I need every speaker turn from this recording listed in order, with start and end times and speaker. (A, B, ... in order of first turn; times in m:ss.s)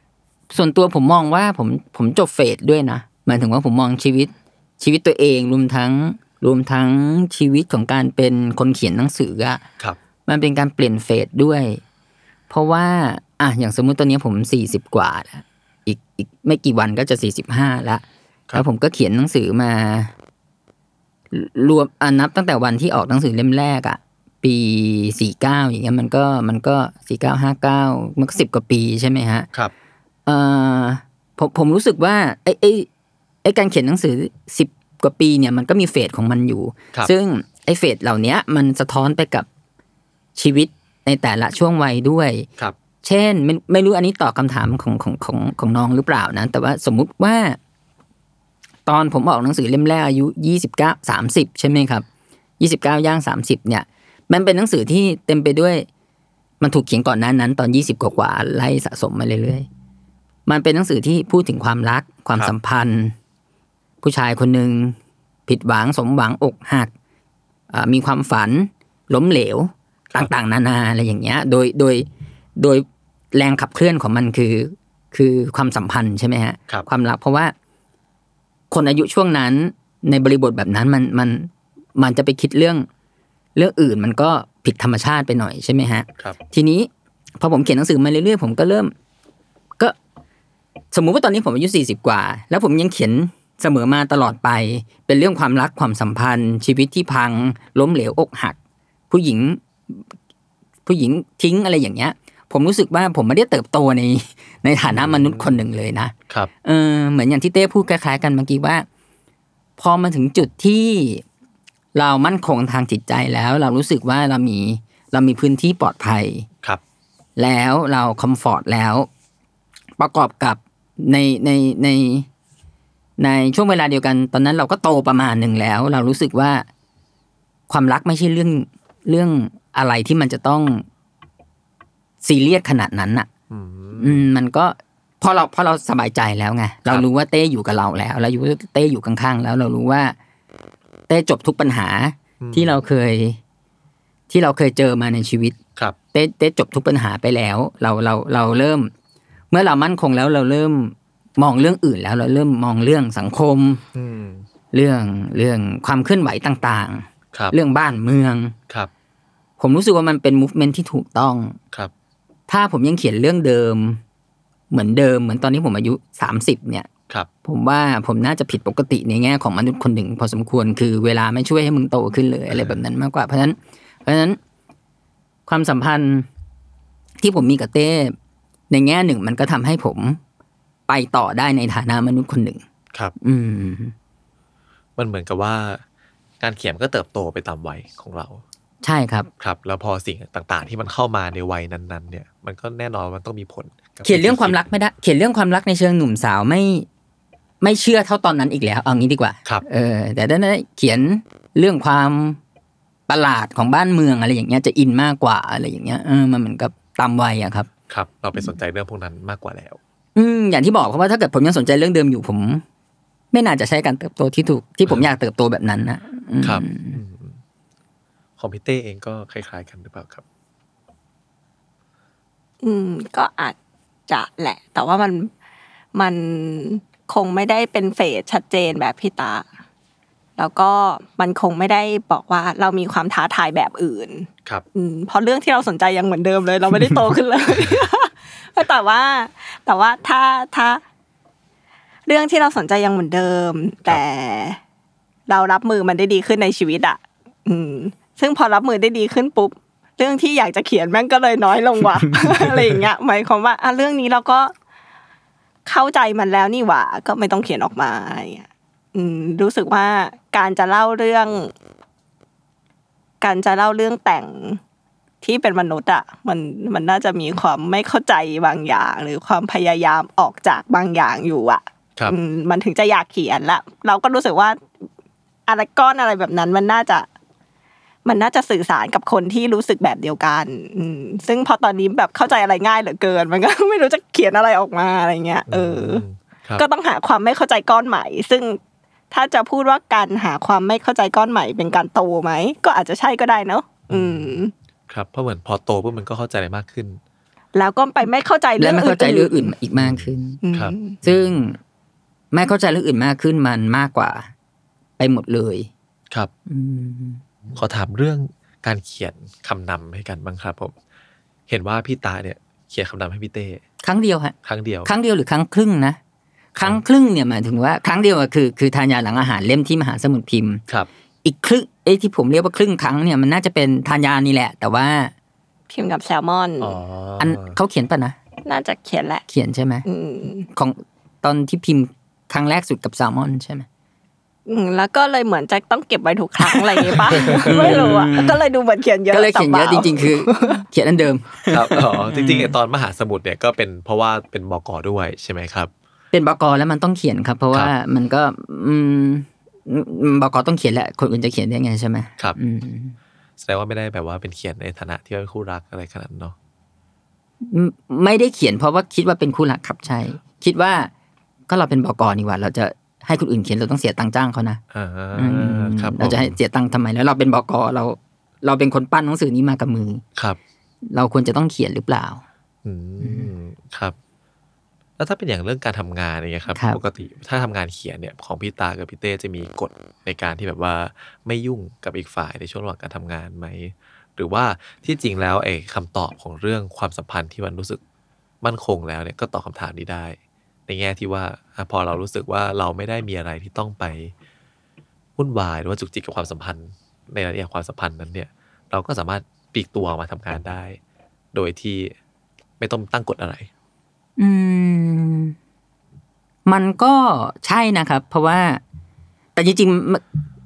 0:00.5-0:09.6 A
0:10.3-0:11.8 A
0:12.5-0:18.0 A
0:18.5-0:20.1 A
0:21.3-0:29.5 A
0:30.2-0:32.9 A
0:33.4-0:39.5 A
0:40.4-0:42.5 A
0:43.0-0:47.6 A
0:48.8-0:52.0 A
0:52.6-0:55.9 A
0:56.6-0:59.7 A
1:00.4-1:03.1 A
1:04.0-1:06.9 A
1:07.7-1:17.5 A
1:18.7-1:22.8 A
1:23.5-1:28.9 A
1:30.9-1:38.6 A
1:39.1-1:40.0 A
1:40.8-1:48.8 A
1:44.9-1:45.5 B
1:49.8-1:51.2 A
1:51.9-1:56.5 A
1:57.4-1:59.1 A
2:00.0-2:02.3 A
2:03.2-2:06.7 A
2:07.7-2:10.8 A
2:12.2-2:13.3 A
2:13.5-2:14.2 B
2:14.0-2:20.2 A
2:21.1-2:23.4 A
2:22.4-2:22.8 B
2:24.3-2:25.6 A
2:26.1-2:28.9 A
2:29.5-2:33.8 A
2:33.9-2:34.4 B
2:34.7-2:38.5 A
2:39.6-2:41.6 A
2:42.5-2:44.0 A
2:44.7-2:46.9 A
2:47.4-2:54.4 A
2:55.5-2:56.3 A
2:57.2-2:58.2 A
2:58.7-3:00.2 A
3:00.9-3:02.6 A
3:03.2-3:03.9 A
3:05.0-3:05.8 B
3:06.4-3:08.4 B
3:08.8-3:09.3 A
3:09.4-3:14.6 B
3:14.0-3:16.9 A
3:17.6-3:22.4 A
3:23.1-3:27.7 A
3:27.9-3:29.8 B
3:30.2-3:32.6 A
3:33.3-3:37.0 A
3:36.4-3:37.4 B
3:38.4-3:40.2 B
3:42.6-3:43.6 C
3:44.1-3:45.3 C
3:45.9-3:49.4 C
3:50.4-4:00.8 C
4:02.0-4:04.6 C
4:05.3-4:14.5 C
4:15.6-4:21.5 C
4:23.2-4:24.6 C
4:25.2-4:34.6 C
4:35.5-4:37.1 C
4:38.0-4:46.0 C
4:45.5-4:46.6 B
4:46.6-4:48.6 C
4:49.1-4:54.5 C
4:53.9-4:54.4 B
4:54.9-4:57.0 B
4:57.5-4:59.5 C
4:58.6-5:00.4 A
4:59.8-5:01.3 B
5:00.4-5:01.0 C
5:01.0-5:01.6 A
5:02.3-5:04.3 A
5:05.0-5:05.7 A
5:06.5-5:07.2 A
5:07.5-5:10.7 B
5:11.5-5:13.6 B
5:13.8-5:14.3 A
5:14.4-5:14.9 B
5:14.8-5:16.0 A
5:16.6-5:20.6 A
5:21.2-5:25.1 A
5:25.7-5:26.8 C
5:26.6-5:27.5 B
5:27.2-5:28.2 A
5:28.4-5:29.2 C
5:29.3-5:29.8 A
5:29.8-5:30.5 C
5:30.5-5:33.6 A
5:34.5-5:40.6 C
5:37.1-5:37.8 B
5:37.2-5:38.4 A
5:39.1-5:42.5 A
5:41.5-5:45.7 B
5:46.1-5:53.0 A
5:53.4-5:56.4 B
5:57.4-6:00.9 A
6:01.5-6:04.6 A
6:04.7-6:06.4 B
6:05.2-6:10.0 A
6:10.9-6:12.2 A
6:12.6-6:13.9 B
6:13.0-6:13.3 A
6:15.0-6:27.8 B
6:16.5-6:16.8 A
6:28.4-6:30.2 B
6:30.7-6:34.1 B
6:35.2-6:40.8 B
6:41.3-6:41.9 B
6:42.6-6:43.5 B
6:44.2-6:45.4 A
6:46.4-6:48.6 A
6:49.3-6:50.0 A